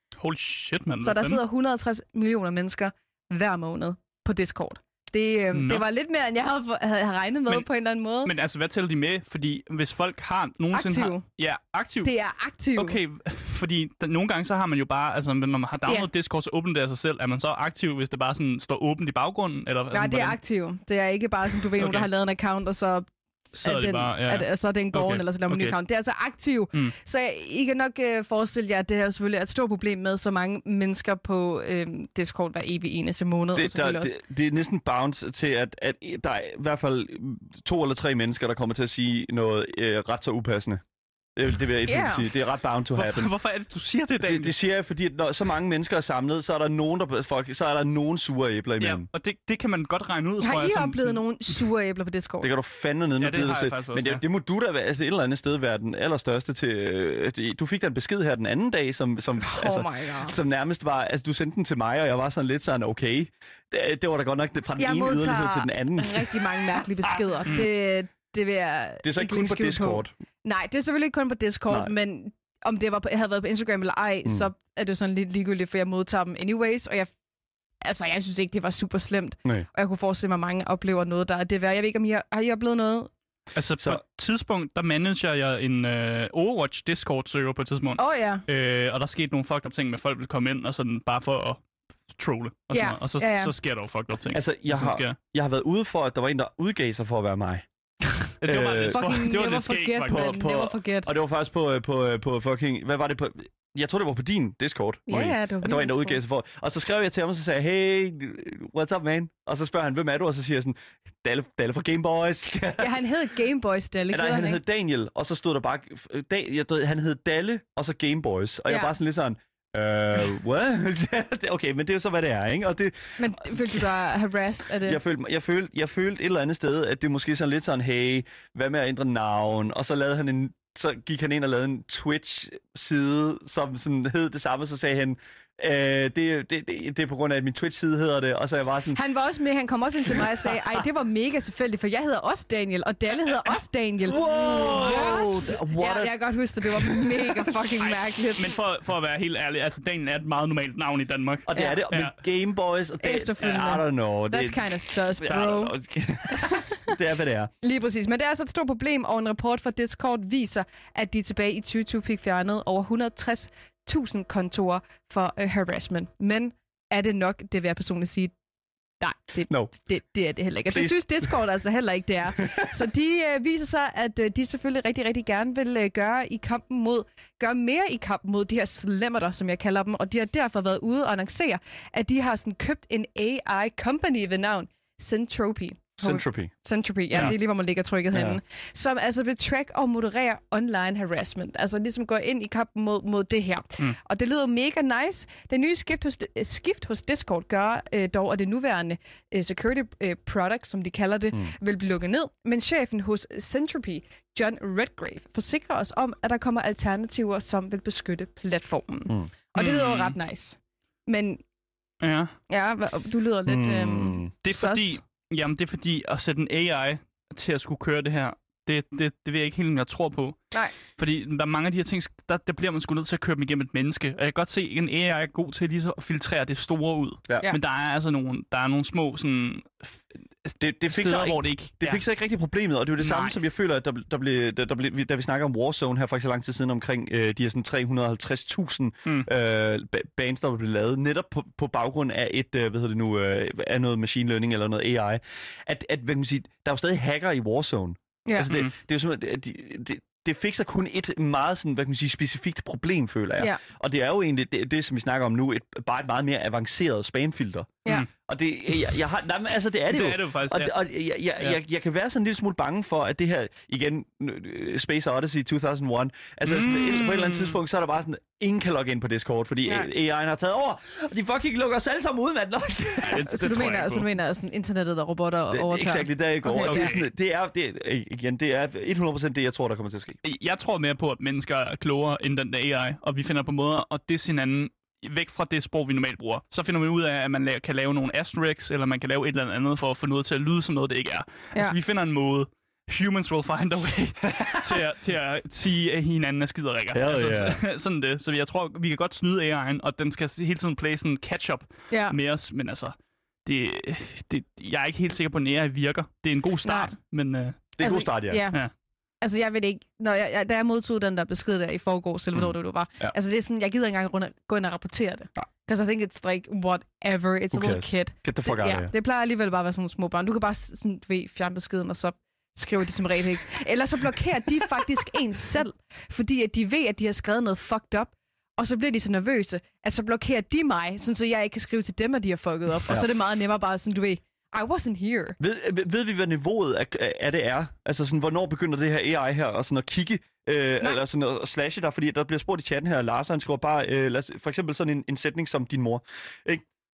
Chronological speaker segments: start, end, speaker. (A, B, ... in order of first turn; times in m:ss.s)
0:00.2-0:01.4 A
0:01.0-0:08.3 B
0:05.5-0:05.8 A
0:08.2-0:12.1 A
0:10.7-0:11.2 B
0:12.0-0:13.0 B
0:12.8-0:20.4 A
0:19.9-0:34.2 B
0:21.8-0:22.1 A
0:23.5-0:25.8 A
0:33.6-0:40.8 C
0:41.4-0:43.3 C
0:41.9-0:42.3 B
0:43.0-0:44.6 A
0:44.2-0:49.1 C
0:48.8-0:51.3 A
0:50.4-0:52.5 B
0:52.4-1:07.4 C
0:53.2-0:54.2 A
0:59.4-1:00.4 B
1:04.8-1:17.1 B
1:09.0-1:10.1 C
1:17.8-1:23.1 B
1:23.5-1:35.2 A
1:28.0-1:28.4 B
1:32.7-1:33.5 B
1:34.3-1:37.7 C
1:38.4-1:40.5 A
1:38.4-1:39.1 C
1:38.8-1:41.1 B
1:40.1-1:53.0 C
1:45.1-1:46.2 B
1:52.8-1:54.6 B
1:54.1-2:04.0 C
1:58.7-1:58.9 B
2:03.2-2:05.0 B
2:04.8-2:19.0 C
2:18.9-2:28.5 B
2:24.0-2:26.2 C
2:24.6-2:25.1 A
2:26.8-2:27.3 C
2:27.8-2:32.2 A
2:31.5-2:37.5 C
2:33.0-2:35.7 B
2:36.3-2:36.9 B
2:37.6-2:48.3 B
2:49.0-3:31.4 B
2:50.7-2:51.3 C
3:06.0-3:06.5 C
3:08.1-3:08.4 C
3:29.6-3:30.2 A
3:32.0-3:32.4 A
3:32.5-3:35.0 B
3:33.5-3:34.3 C
3:34.4-3:40.4 A
3:41.0-3:52.0 A
3:50.6-4:33.3 C
3:53.0-3:53.4 A
4:08.5-4:08.7 A
4:19.9-4:20.7 A
4:26.4-4:27.6 A
4:33.0-4:34.1 A
4:33.1-4:37.0 B
4:35.5-4:40.2 C
4:36.6-4:37.1 A
4:40.2-5:07.7 A
4:54.3-4:54.8 C
4:56.9-4:57.6 C
5:01.9-5:02.2 B
5:06.6-5:06.9 B
5:07.8-5:08.5 C
5:07.8-5:08.6 B
5:09.2-5:35.4 B
5:12.4-5:13.2 C
5:17.5-5:18.9 C
5:35.4-5:46.6 C